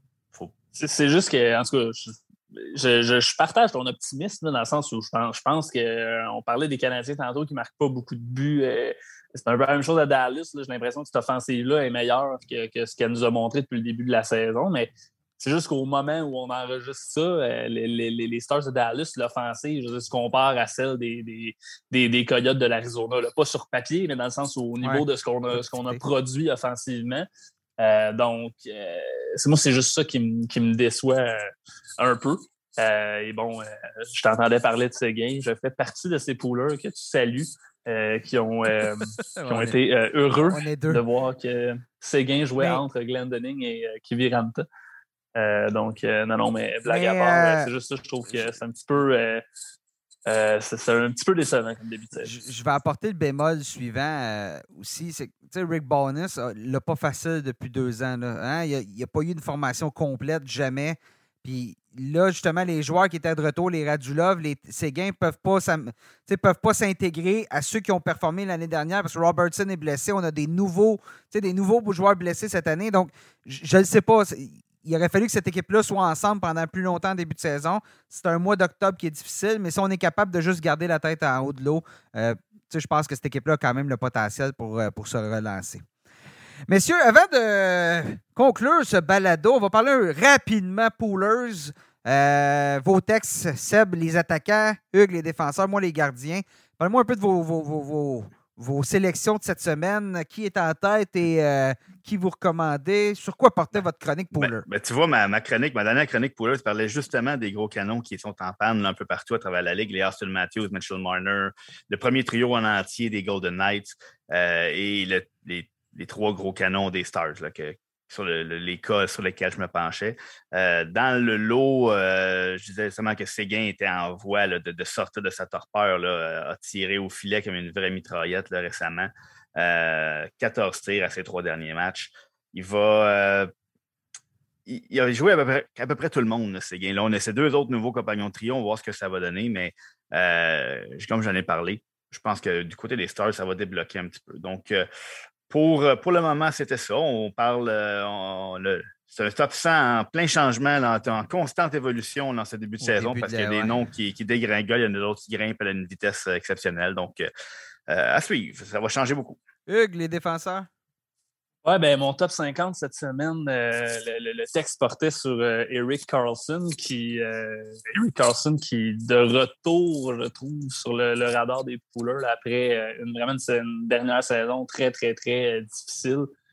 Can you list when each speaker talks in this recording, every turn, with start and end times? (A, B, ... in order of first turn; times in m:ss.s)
0:00.8-0:27.3 A
0:24.8-0:26.0 B
0:27.8-0:44.6 A
0:39.4-0:39.8 B
0:40.4-0:41.0 B
0:45.4-0:49.4 A
0:46.8-0:47.7 B
0:50.3-0:52.3 A
0:52.2-1:25.8 B
1:26.7-1:44.7 B
1:44.3-2:13.5 C
2:14.7-2:24.9 C
2:25.5-2:37.3 C
2:32.8-2:33.8 B
2:37.9-2:39.4 C
2:39.7-2:40.7 B
2:41.6-2:56.3 A